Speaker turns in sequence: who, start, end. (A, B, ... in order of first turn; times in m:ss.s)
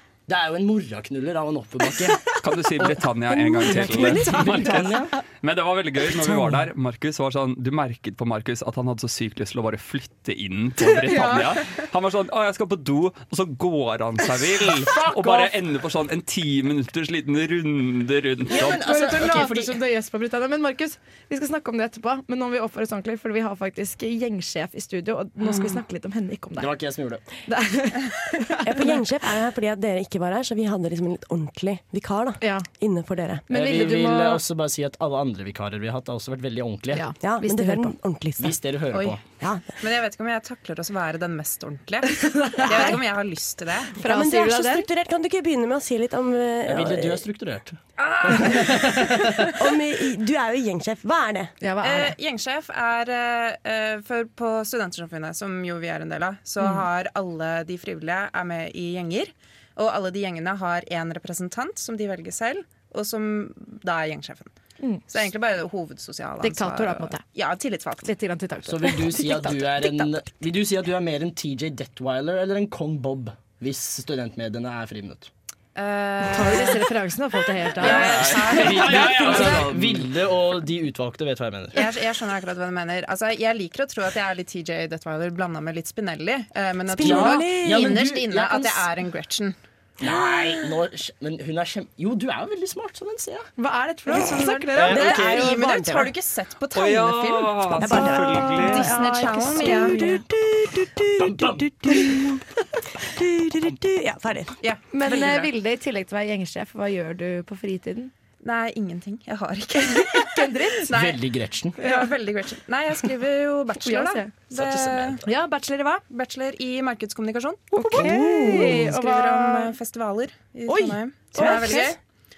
0:00.3-0:05.1 A
0:02.4-0:18.8 B
0:03.6-0:04.5 C
0:03.8-0:04.8 D
0:10.8-0:11.6 D
0:14.8-0:15.6 A
0:18.5-0:19.8 A
0:18.5-0:26.8 D
0:26.6-0:27.2 A
0:27.5-0:29.0 D
0:28.6-0:33.5 C
0:32.4-0:32.7 D
0:33.5-0:34.4 D
0:33.5-0:37.0 A
0:36.9-0:37.9 D
0:37.2-0:38.6 C
0:38.4-0:39.2 A
0:39.4-0:39.7 C
0:39.8-0:44.3 E
0:42.2-0:43.0 D
0:44.0-0:44.9 D
0:44.0-0:47.2 C
0:46.7-0:47.8 A
0:48.0-0:49.3 E
0:48.3-0:48.8 C
0:48.4-0:49.1 A
0:49.5-0:51.6 C
0:51.6-0:52.2 D
0:51.8-1:04.5 E
1:04.8-1:05.1 D
1:05.1-1:08.1 E
1:06.4-1:07.2 D
1:08.0-1:10.2 D
1:08.7-1:15.3 A
1:15.8-1:16.8 E
1:16.3-1:18.7 D
1:17.8-1:19.7 E
1:17.8-1:21.8 A
1:17.9-1:19.8 B
1:21.7-1:29.6 E
1:27.0-1:28.0 C
1:27.0-1:28.9 A
1:30.0-1:33.5 A
1:30.1-1:30.5 C
1:33.6-1:35.2 D
1:34.1-1:38.1 E
1:34.8-1:35.6 A
1:34.9-1:36.1 C
1:36.8-1:39.0 B
1:37.8-1:42.4 C
1:37.9-1:40.2 D
1:38.7-1:40.0 E
1:41.2-1:41.9 A
1:43.0-1:44.6 C
1:44.6-1:45.5 E
1:44.9-1:48.1 D
1:48.4-1:51.2 E
1:49.8-1:50.9 D
1:50.9-1:51.8 A
1:51.8-1:55.2 E
1:51.8-1:52.1 D
1:53.8-1:54.3 D
1:54.5-1:55.3 A
1:55.3-1:56.0 D
1:56.1-2:02.0 E
1:57.8-1:59.7 D
1:57.9-1:58.9 C
2:00.7-2:01.9 D
2:01.3-2:01.9 C